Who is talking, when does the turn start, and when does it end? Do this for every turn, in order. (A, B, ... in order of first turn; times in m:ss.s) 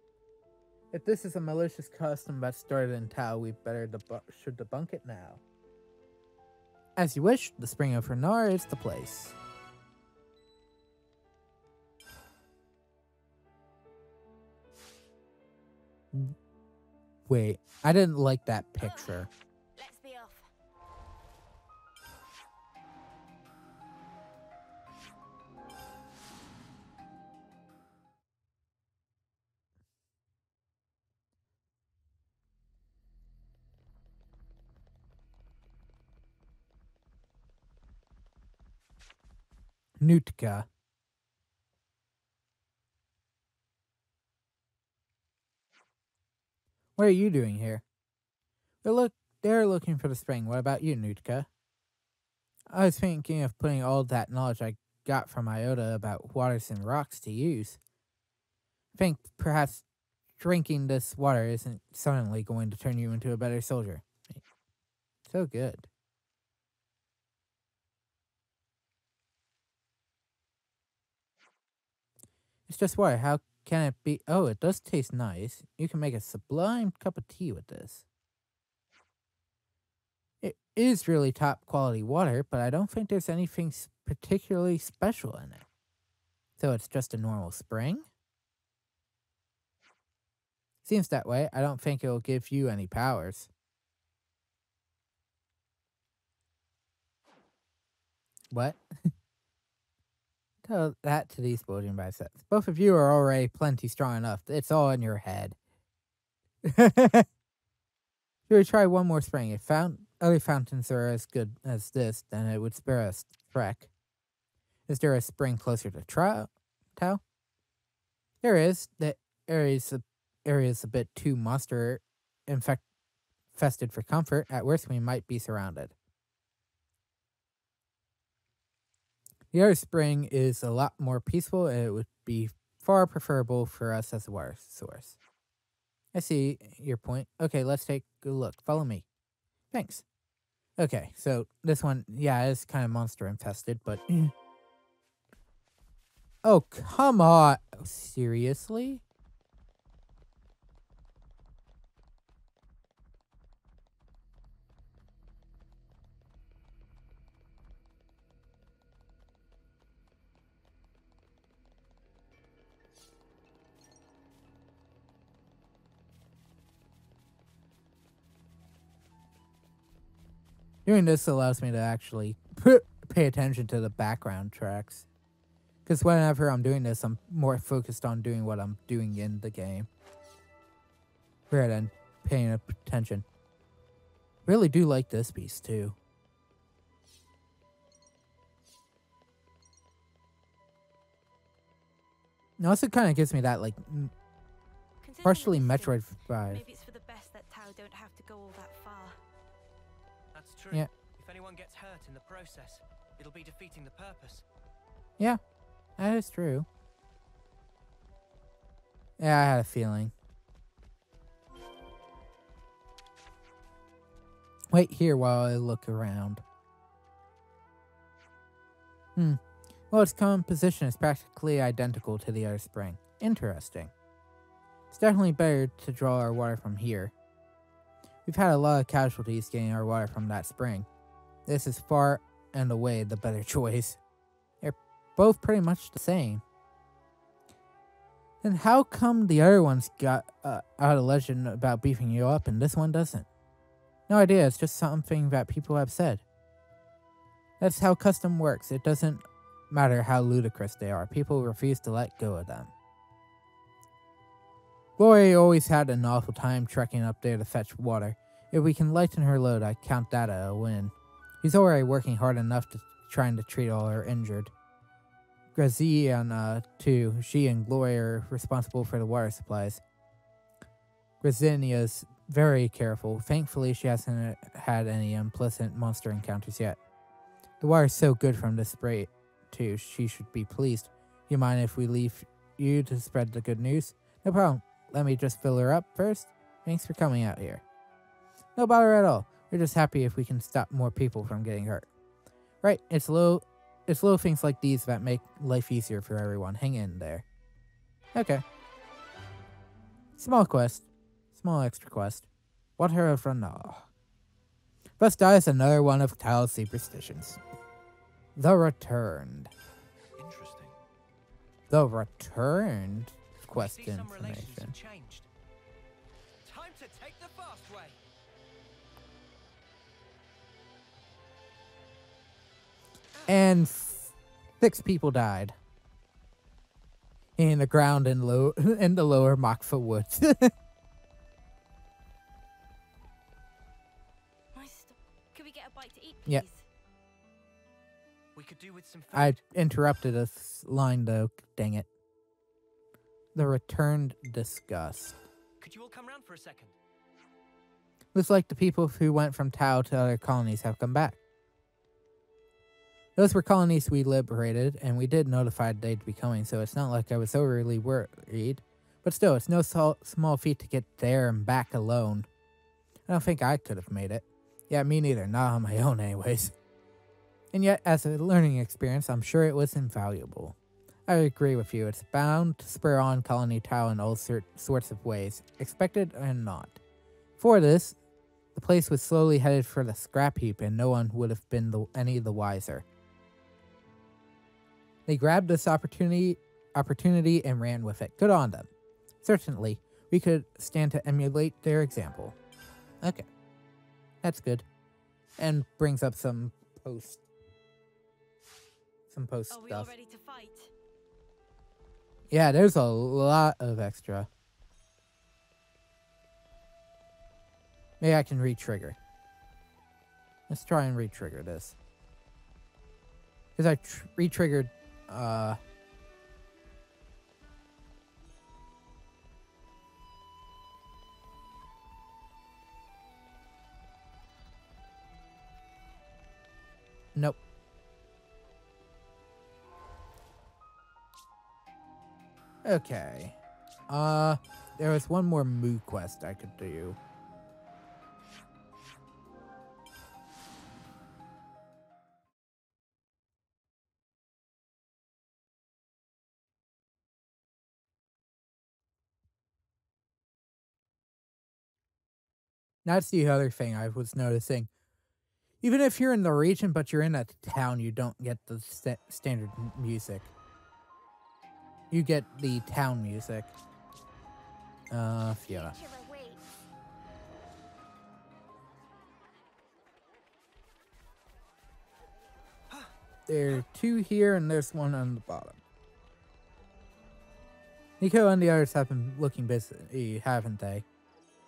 0:00.9-0:05.4 A
0:07.0-0:09.4 A
0:17.3-0:19.3 A
0:18.8-0:20.5 B
0:40.0-0:40.6 A
0:47.0-0:47.8 A
0:48.8-0:51.5 A
0:52.7-0:57.8 A
0:58.9-0:59.8 A
1:00.4-1:04.4 A
1:05.3-1:05.9 A
1:12.7-1:18.0 A
1:20.4-1:25.6 A
1:26.6-1:28.1 A
1:30.8-1:33.5 A
1:38.5-1:38.8 A
1:40.6-1:45.6 A
1:46.6-1:47.2 A
1:48.5-1:53.9 A
1:54.9-1:57.2 A
1:58.4-2:02.8 A
2:03.5-2:05.9 A
2:09.5-2:15.2 A
2:16.1-2:19.0 A
2:19.7-2:20.0 A
2:20.8-2:24.3 A
2:26.4-2:29.0 A
2:50.8-2:55.0 A
2:55.8-2:59.9 A
3:01.5-3:03.2 A
3:04.4-3:06.0 A
3:12.6-3:14.1 A
3:15.0-3:19.2 B
3:15.2-3:16.6 A
3:20.3-3:24.4 C
3:26.0-3:26.6 A
3:29.2-3:30.1 A
3:34.7-3:36.4 A
3:39.9-3:43.9 A
3:44.9-3:47.1 A
3:48.2-3:50.9 A
3:51.5-3:54.0 A
3:54.6-3:56.4 A
3:58.4-4:03.3 A
4:04.1-4:06.2 A
4:07.6-4:12.7 A
4:15.0-4:24.5 A
4:25.6-4:29.8 A
4:31.2-4:36.8 A
4:37.6-4:47.6 A
4:48.6-4:51.9 A
4:52.6-4:57.2 A
4:58.1-4:58.4 A
5:00.2-5:02.3 A
5:02.8-5:03.9 A
5:05.0-5:07.4 A
5:08.4-5:09.5 A
5:10.2-5:10.8 C
5:11.7-5:14.7 A
5:13.5-5:15.3 C
5:16.4-5:18.0 C
5:23.3-5:25.5 A
5:27.4-5:30.5 A
5:34.5-5:36.6 B
5:38.3-5:39.4 C
5:39.1-5:41.9 A
5:43.3-5:45.2 A
5:45.6-5:46.8 C
5:48.1-5:51.2 A
5:53.2-6:02.3 A
6:03.1-6:06.5 A
6:07.5-6:10.6 A
6:11.1-6:16.8 A
6:17.4-6:18.0 A
6:18.5-6:22.8 A
6:25.0-6:28.7 A
6:29.2-6:32.4 A
6:34.2-6:34.6 A
6:35.4-6:37.2 A
6:39.1-6:39.9 A
6:39.5-6:40.7 B
6:42.3-6:44.3 A
6:48.0-6:49.0 A
6:50.5-6:51.8 A
6:53.6-6:55.6 A
7:12.6-7:13.4 A
7:13.9-7:17.0 A
7:32.8-7:34.7 A
7:35.6-7:40.3 A
7:41.9-7:43.5 A
7:44.9-7:45.8 A
7:45.4-7:46.4 B
7:53.3-7:55.6 A
7:58.0-8:00.8 A